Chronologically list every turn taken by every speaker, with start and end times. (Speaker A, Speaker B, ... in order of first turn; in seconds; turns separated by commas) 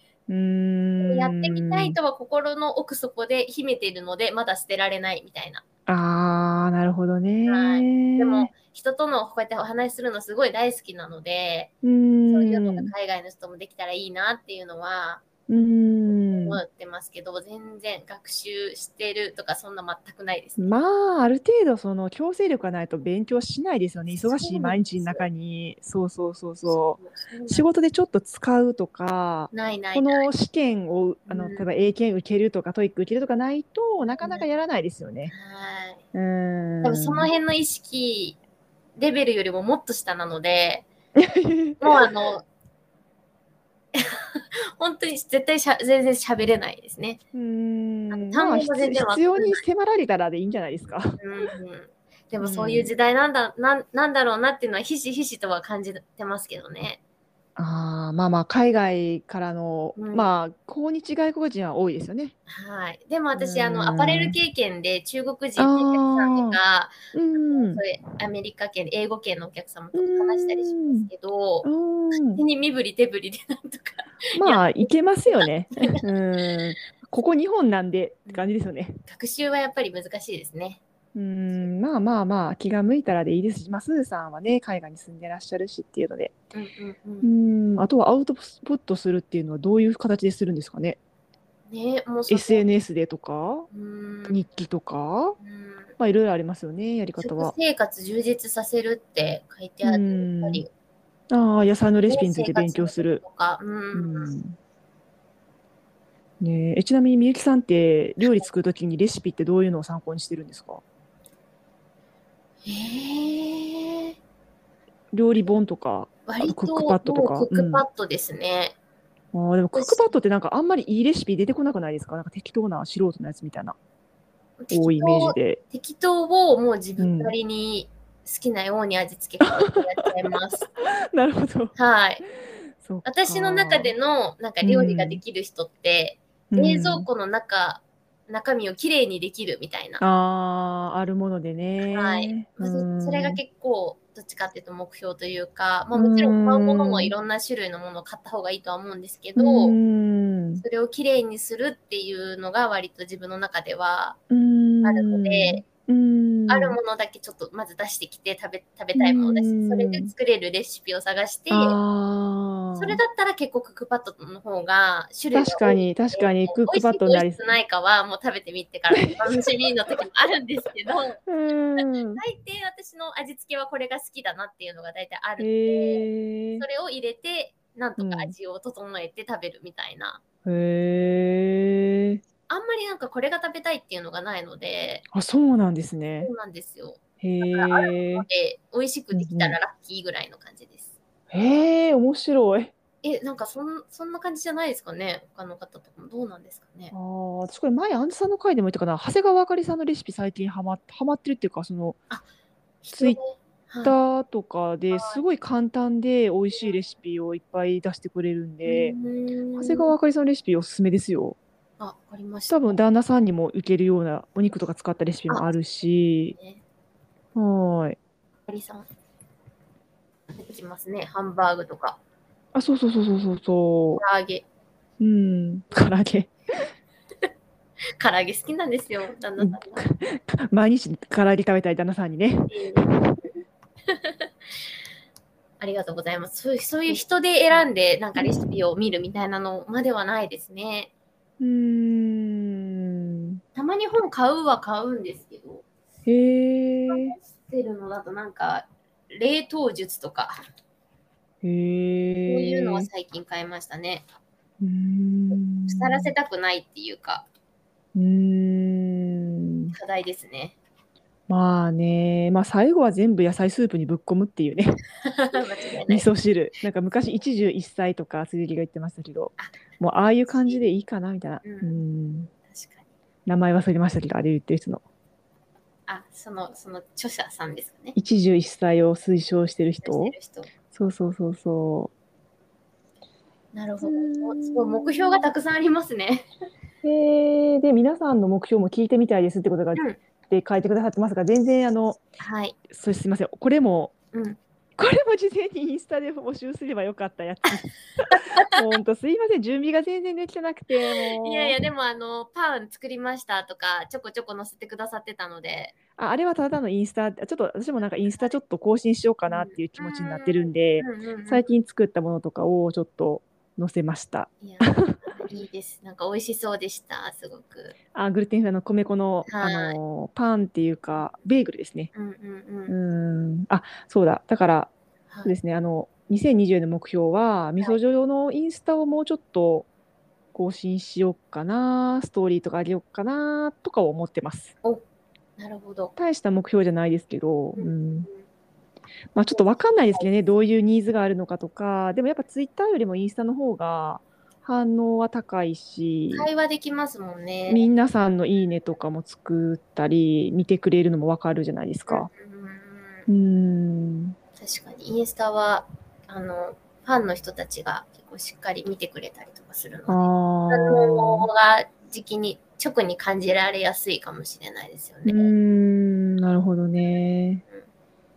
Speaker A: 0.3-2.0, Speaker B: 1.0-5.6, Speaker A: 5.9-8.5, Speaker B: 7.5-11.7, Speaker A: 11.8-12.9, Speaker B: 12.3-15.2, Speaker A: 15.5-16.6, Speaker B: 16.1-20.8, Speaker A: 20.6-35.3, Speaker B: 24.1-25.3, Speaker B: 26.6-27.7, Speaker B: 29.5-30.3, Speaker B: 31.3-31.7, Speaker B: 34.2-34.5, Speaker B: 35.3-36.0, Speaker A: 36.1-37.3, Speaker B: 36.8-38.4, Speaker B: 39.0-40.9, Speaker A: 41.2-42.1, Speaker B: 41.8-42.5, Speaker B: 43.9-47.2, Speaker A: 47.3-51.2, Speaker B: 48.1-49.6, Speaker B: 51.2-57.0, Speaker A: 52.4-52.9, Speaker A: 57.6-62.4, Speaker B: 60.0-60.3, Speaker B: 62.5-76.0, Speaker A: 63.3-64.4, Speaker A: 65.6-66.6, Speaker A: 67.1-67.8, Speaker A: 69.9-71.1, Speaker A: 71.6-72.4, Speaker A: 74.3-79.0, Speaker B: 79.1-80.8, Speaker A: 81.2-86.3, Speaker B: 86.5-87.3, Speaker A: 87.2-91.0, Speaker B: 91.7-92.7, Speaker A: 92.3-93.7, Speaker B: 93.7-94.5, Speaker A: 94.3-95.4, Speaker B: 95.4-96.0, Speaker A: 96.0-97.5, Speaker B: 97.2-100.7, Speaker A: 99.8-100.6, Speaker A: 101.3-103.2, Speaker B: 102.1-104.3, Speaker A: 103.9-104.6, Speaker A: 106.4-110.8, Speaker B: 112.7-114.2, Speaker A: 115.1-117.8, Speaker B: 116.3-118.8, Speaker A: 119.3-123.8, Speaker B: 119.7-120.2, Speaker B: 124.6-130.7, Speaker A: 124.7-125.6, Speaker A: 127.0-127.3, Speaker A: 129.4-130.1, Speaker A: 130.8-131.8, Speaker B: 131.8-132.2, Speaker A: 132.8-133.9, Speaker B: 133.1-140.0, Speaker A: 134.6-135.2, Speaker A: 136.5-137.1, Speaker A: 140.0-143.4, Speaker B: 141.9-149.8, Speaker A: 145.9-147.1, Speaker A: 149.4-150.6, Speaker B: 150.6-154.2, Speaker A: 154.3-156.8, Speaker B: 154.8-155.6, Speaker B: 156.5-161.8, Speaker A: 158.9-160.1, Speaker A: 161.5-163.0, Speaker B: 162.8-171.2, Speaker A: 165.3-167.4, Speaker A: 169.0-169.4, Speaker A: 171.3-172.2, Speaker B: 172.2-176.1, Speaker A: 175.4-176.7, Speaker B: 176.6-180.2, Speaker A: 178.0-178.3, Speaker A: 180.4-182.2, Speaker B: 182.5-185.1, Speaker A: 185.1-186.3, Speaker B: 186.2-190.9, Speaker A: 187.2-188.3, Speaker A: 189.1-189.6, Speaker A: 191.3-192.7, Speaker B: 193.0-196.9, Speaker A: 196.9-202.0, Speaker B: 202.8-204.0, Speaker A: 202.9-203.2, Speaker A: 203.8-209.0, Speaker B: 204.9-205.2, Speaker B: 208.7-209.9, Speaker A: 209.6-211.4, Speaker B: 211.8-212.8, Speaker A: 212.5-216.4, Speaker B: 216.3-216.6, Speaker A: 217.3-218.0, Speaker B: 218.5-218.9, Speaker B: 220.3-222.0, Speaker A: 222.5-224.0, Speaker B: 224.0-224.4, Speaker A: 225.0-226.3, Speaker B: 228.0-229.9, Speaker A: 229.4-233.1, Speaker B: 232.5-233.3, Speaker B: 233.9-234.3, Speaker B: 235.6-240.9, Speaker A: 238.2-238.5, Speaker A: 241.4-243.4, Speaker B: 243.6-245.7, Speaker A: 246.1-247.2, Speaker B: 246.9-250.4, Speaker A: 251.4-252.9, Speaker B: 252.3-254.0, Speaker A: 254.6-256.1, Speaker B: 255.7-257.3, Speaker A: 257.9-259.8, Speaker B: 259.7-260.6, Speaker A: 261.3-264.8, Speaker B: 265.0-266.1, Speaker A: 265.9-272.3, Speaker B: 269.4-270.6, Speaker B: 271.4-272.9, Speaker A: 273.3-274.8, Speaker B: 275.9-278.0, Speaker A: 277.9-280.1, Speaker B: 279.8-280.5, Speaker A: 280.7-281.9, Speaker B: 283.5-286.3, Speaker A: 283.8-285.3, Speaker A: 286.8-292.0, Speaker B: 292.2-292.6, Speaker A: 292.7-293.9, Speaker B: 294.1-294.4, Speaker A: 294.8-301.6, Speaker B: 298.1-298.5, Speaker B: 301.1-305.8, Speaker A: 306.0-315.3, Speaker B: 309.3-311.5, Speaker B: 314.4-317.8, Speaker A: 317.9-321.9, Speaker B: 319.3-319.8, Speaker B: 321.0-321.2, Speaker B: 321.9-322.8, Speaker A: 322.7-324.7, Speaker B: 325.1-325.4, Speaker A: 325.2-329.7, Speaker A: 330.3-334.5, Speaker B: 335.4-335.9, Speaker A: 336.0-338.1, Speaker B: 337.6-338.2, Speaker A: 339.1-346.3, Speaker B: 339.3-340.1, Speaker B: 346.1-347.7, Speaker A: 347.5-352.1, Speaker B: 351.9-353.1, Speaker A: 353.1-354.1, Speaker B: 354.4-365.3, Speaker A: 359.9-361.3, Speaker A: 365.1-367.4